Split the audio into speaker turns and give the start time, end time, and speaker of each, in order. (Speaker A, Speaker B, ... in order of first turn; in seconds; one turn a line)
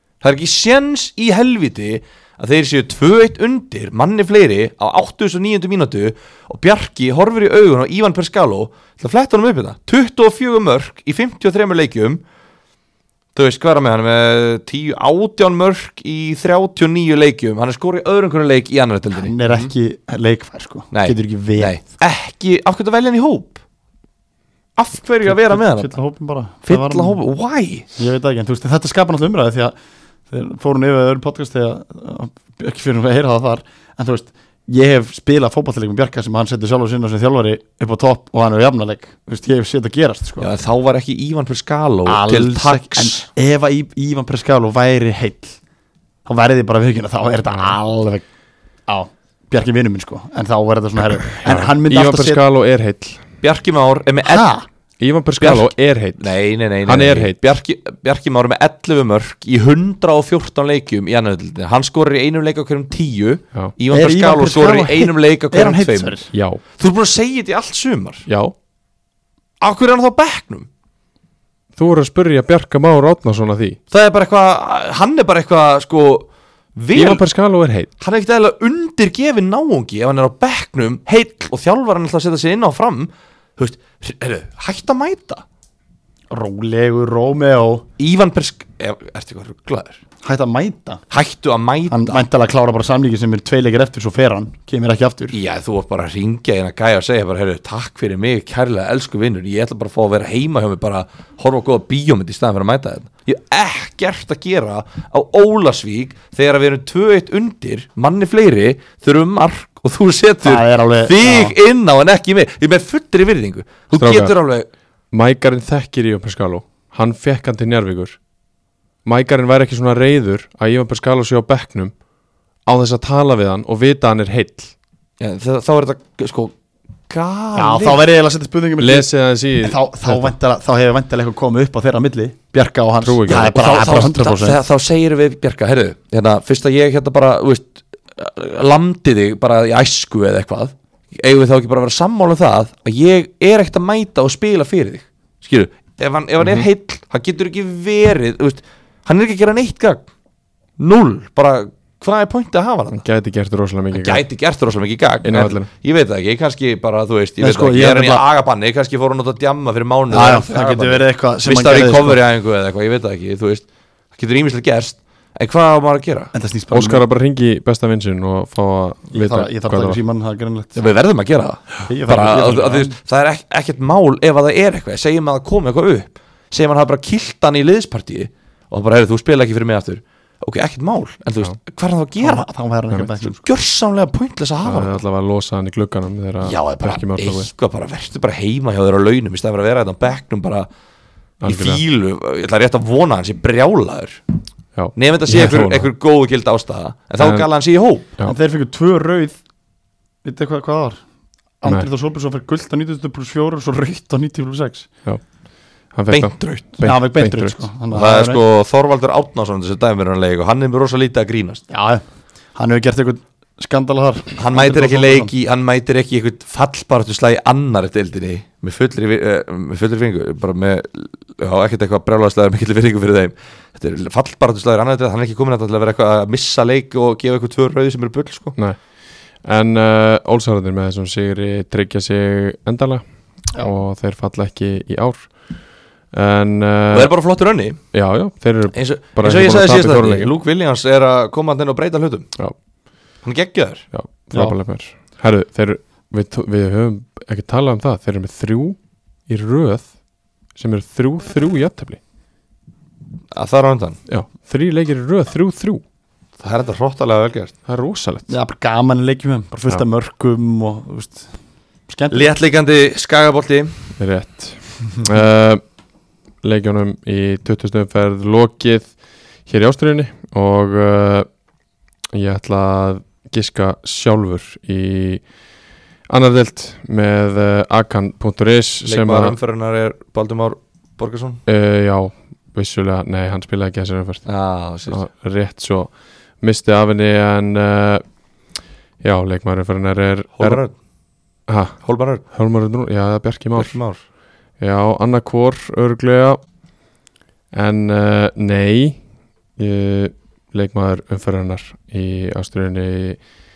Speaker A: 0.2-12.2
Speaker A: 13.3-19.3
Speaker B: 19.2-21.8
Speaker A: 20.9-23.6
Speaker A: 24.8-25.9
Speaker B: 25.2-27.2
Speaker A: 26.7-27.9
Speaker B: 28.0-29.8
Speaker B: 30.3-40.5
Speaker A: 40.4-43.3
Speaker B: 42.1-45.6
Speaker B: 46.3-48.2
Speaker C: 47.5-47.8
Speaker B: 48.9-52.4
Speaker C: 51.4-53.2
Speaker A: 53.4-54.5
Speaker B: 54.2-54.7
Speaker C: 55.0-57.4
Speaker A: 55.4-66.2
Speaker B: 63.9-66.3
Speaker C: 66.3-66.6
Speaker A: 66.8-68.3
Speaker C: 68.3-68.5
Speaker A: 69.6-70.7
Speaker C: 71.8-73.8
Speaker A: 73.9-77.2
Speaker C: 76.9-77.9
Speaker A: 78.0-85.4
Speaker B: 86.3-87.8
Speaker A: 88.0-90.0
Speaker B: 90.2-91.0
Speaker A: 91.1-92.2
Speaker B: 91.9-95.3
Speaker A: 95.3-114.7
Speaker B: 110.4-111.5
Speaker C: 113.9-114.4
Speaker C: 115.1-118.2
Speaker C: 119.0-122.0
Speaker C: 122.7-124.7
Speaker A: 125.2-126.5
Speaker A: 127.1-128.0
Speaker B: 127.5-129.1
Speaker C: 128.8-130.3
Speaker B: 129.6-134.6
Speaker C: 133.0-133.6
Speaker A: 133.3-150.1
Speaker C: 146.4-146.7
Speaker A: 150.8-153.0
Speaker C: 152.9-154.2
Speaker A: 153.9-166.3
Speaker C: 155.2-155.7
Speaker B: 157.4-158.2
Speaker B: 160.1-162.2
Speaker B: 166.3-167.1
Speaker C: 166.7-170.0
Speaker B: 169.1-170.8
Speaker A: 170.8-182.5
Speaker B: 171.9-173.0
Speaker B: 182.2-183.4
Speaker A: 183.2-185.0
Speaker C: 184.6-187.5
Speaker A: 186.4-190.7
Speaker C: 191.4-191.8
Speaker A: 191.4-194.2
Speaker C: 194.8-195.9
Speaker A: 194.9-198.1
Speaker C: 197.2-197.5
Speaker B: 198.2-199.4
Speaker B: 200.2-201.0
Speaker B: 201.6-204.9
Speaker C: 205.9-207.7
Speaker A: 206.1-206.7
Speaker B: 206.8-208.4
Speaker A: 207.9-211.7
Speaker B: 211.7-212.0
Speaker B: 212.6-215.3
Speaker A: 214.4-228.6
Speaker C: 228.6-228.8
Speaker C: 229.4-233.0
Speaker C: 233.6-235.5
Speaker C: 236.1-237.1
Speaker A: 236.9-237.8
Speaker C: 237.9-240.3
Speaker A: 238.7-242.3
Speaker A: 243.2-243.8
Speaker C: 243.9-249.9
Speaker C: 250.6-252.0
Speaker A: 253.3-254.0
Speaker C: 254.1-255.8
Speaker A: 256.4-257.6
Speaker C: 257.7-258.3
Speaker B: 258.3-261.3
Speaker B: 261.9-262.3
Speaker A: 262.1-263.9
Speaker C: 264.0-265.6
Speaker C: 266.4-268.9
Speaker C: 269.5-271.3
Speaker C: 272.1-275.2
Speaker C: 276.1-279.4
Speaker A: 278.9-281.4
Speaker C: 281.5-284.3
Speaker A: 284.3-285.0
Speaker C: 284.9-288.0
Speaker C: 289.0-290.6
Speaker A: 290.4-290.7
Speaker C: 291.5-293.8
Speaker A: 291.8-292.2
Speaker A: 293.6-294.0
Speaker C: 294.6-296.4
Speaker C: 297.5-299.0
Speaker C: 299.6-303.2